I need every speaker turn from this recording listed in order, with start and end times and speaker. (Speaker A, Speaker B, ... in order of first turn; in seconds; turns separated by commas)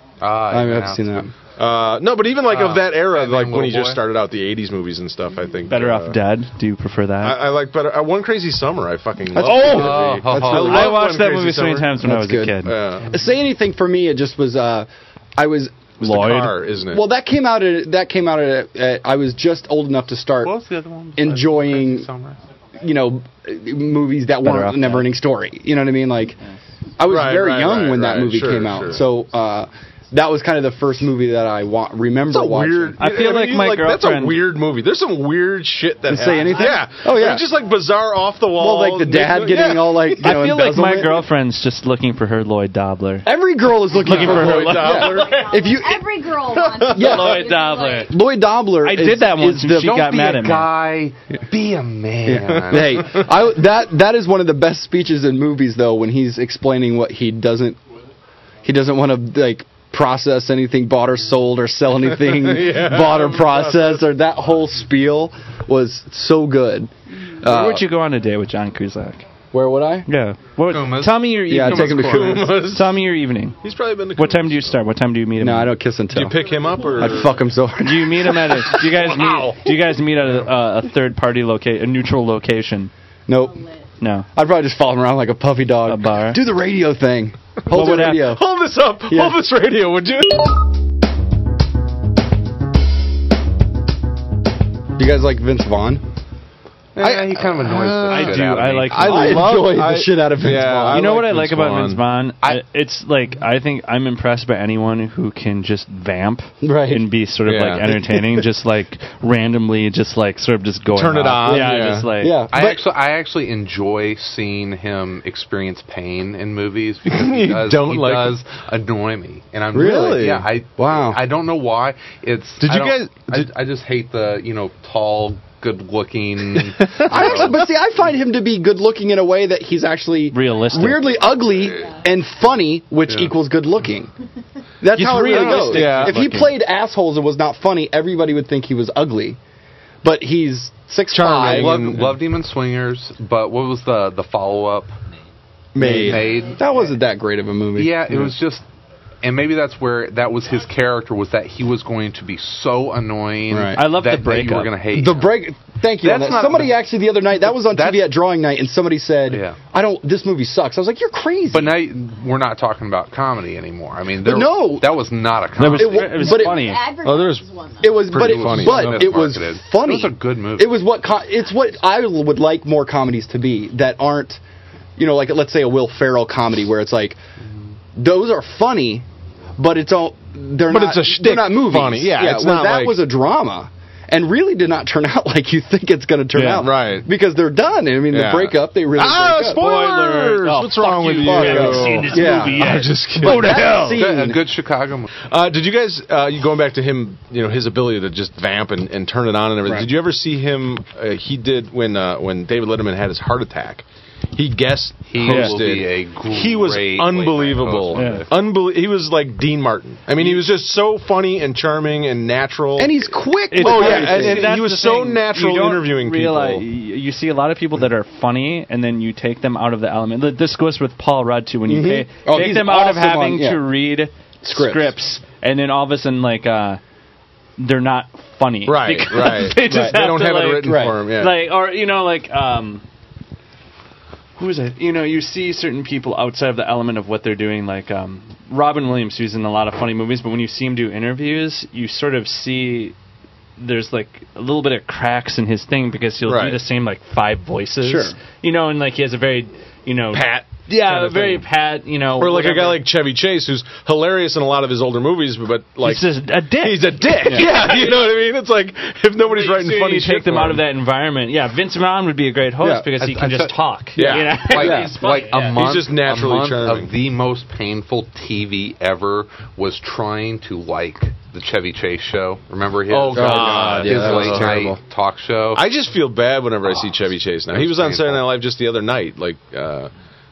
Speaker A: 0.2-1.2, Speaker B: 0.5-1.3, Speaker C: 1.6-6.2, Speaker A: 2.5-4.0, Speaker D: 5.7-7.4, Speaker C: 7.2-12.0, Speaker B: 9.3-11.0, Speaker D: 9.4-12.7, Speaker A: 9.5-10.9, Speaker B: 12.0-15.9, Speaker C: 12.6-13.2, Speaker C: 16.0-17.1, Speaker D: 16.0-16.6, Speaker B: 16.9-20.6, Speaker A: 20.4-22.4, Speaker B: 21.2-22.1, Speaker B: 22.8-26.4, Speaker D: 24.4-25.1, Speaker B: 27.0-33.0, Speaker C: 27.1-29.1, Speaker C: 32.3-40.2, Speaker D: 33.0-34.5, Speaker B: 36.0-37.5, Speaker B: 38.5-41.3, Speaker D: 40.2-43.3, Speaker B: 43.2-46.2, Speaker D: 43.9-45.3, Speaker C: 44.0-45.5, Speaker E: 44.9-48.1, Speaker C: 46.5-46.9, Speaker D: 46.8-48.1, Speaker B: 46.9-47.5, Speaker B: 48.0-50.0, Speaker D: 48.8-50.7, Speaker A: 49.8-53.2, Speaker B: 52.3-57.8, Speaker B: 58.6-67.9, Speaker C: 62.3-64.1, Speaker D: 67.4-69.2, Speaker B: 69.5-70.1, Speaker D: 70.0-73.6, Speaker A: 70.7-72.4, Speaker B: 71.5-72.6, Speaker C: 71.9-73.0, Speaker C: 73.6-74.8, Speaker D: 74.1-75.8, Speaker B: 75.4-78.7, Speaker C: 76.1-77.4, Speaker D: 77.8-82.9, Speaker C: 78.7-79.7, Speaker B: 83.3-83.6, Speaker E: 83.4-83.8, Speaker D: 84.0-84.3, Speaker B: 84.3-88.4, Speaker D: 85.9-86.4, Speaker D: 87.7-88.3, Speaker C: 87.8-90.5, Speaker B: 89.1-89.4, Speaker B: 95.0-96.0, Speaker A: 97.0-99.4, Speaker C: 97.0-102.0, Speaker D: 98.1-99.6, Speaker B: 99.0-101.2, Speaker D: 100.9-112.4, Speaker B: 106.6-107.1, Speaker C: 107.5-108.1, Speaker C: 110.9-112.1, Speaker B: 111.5-112.8, Speaker A: 112.5-127.5, Speaker C: 117.1-118.4, Speaker B: 119.7-121.2, Speaker C: 119.8-120.5, Speaker C: 122.6-123.5, Speaker C: 126.8-127.6, Speaker B: 127.0-134.1, Speaker D: 130.3-131.3, Speaker B: 134.8-139.4, Speaker D: 134.9-136.6, Speaker C: 135.3-136.1, Speaker B: 140.0-141.9, Speaker C: 141.1-142.2, Speaker A: 141.4-144.9, Speaker C: 145.8-146.2, Speaker B: 145.8-148.3, Speaker A: 145.8-146.6, Speaker E: 146.2-146.6, Speaker A: 147.8-148.6, Speaker A: 149.2-155.4, Speaker B: 153.5-153.8, Speaker D: 153.8-154.7, Speaker B: 154.9-161.9, Speaker A: 156.0-156.8, Speaker A: 157.6-158.2, Speaker A: 159.3-159.6, Speaker A: 161.5-166.2, Speaker B: 164.2-165.1, Speaker D: 165.6-166.9, Speaker B: 165.7-166.8, Speaker E: 166.2-168.1, Speaker C: 167.0-167.5, Speaker B: 167.8-174.4, Speaker C: 168.1-169.1, Speaker A: 168.1-170.8, Speaker B: 175.0-177.2, Speaker B: 178.0-179.0, Speaker B: 179.6-189.6, Speaker C: 180.7-183.0, Speaker D: 186.3-186.7, Speaker C: 186.6-187.1, Speaker C: 188.1-193.6, Speaker D: 189.6-194.0, Speaker B: 191.1-194.4, Speaker A: 193.9-195.1, Speaker C: 195.2-213.0, Speaker A: 205.1-208.3, Speaker D: 205.3-205.6, Speaker D: 207.9-208.2, Speaker B: 212.8-214.6, Speaker D: 213.5-226.8, Speaker C: 213.6-216.6, Speaker B: 221.7-223.6, Speaker B: 224.4-224.9, Speaker D: 227.6-232.8, Speaker C: 228.7-231.4, Speaker B: 229.6-230.0, Speaker B: 230.6-231.0, Speaker D: 234.4-242.9, Speaker D: 243.6-252.9, Speaker C: 246.2-246.6, Speaker B: 247.8-248.2, Speaker C: 250.1-251.4, Speaker C: 252.2-260.6, Speaker D: 255.8-258.0, Speaker D: 259.2-265.6, Speaker B: 262.6-262.9, Speaker A: 263.0-275.6, Speaker C: 264.0-264.8, Speaker B: 264.5-265.0, Speaker C: 265.5-266.9, Speaker C: 272.9-274.7, Speaker B: 273.1-274.8, Speaker C: 275.5-279.9, Speaker A: 276.6-278.3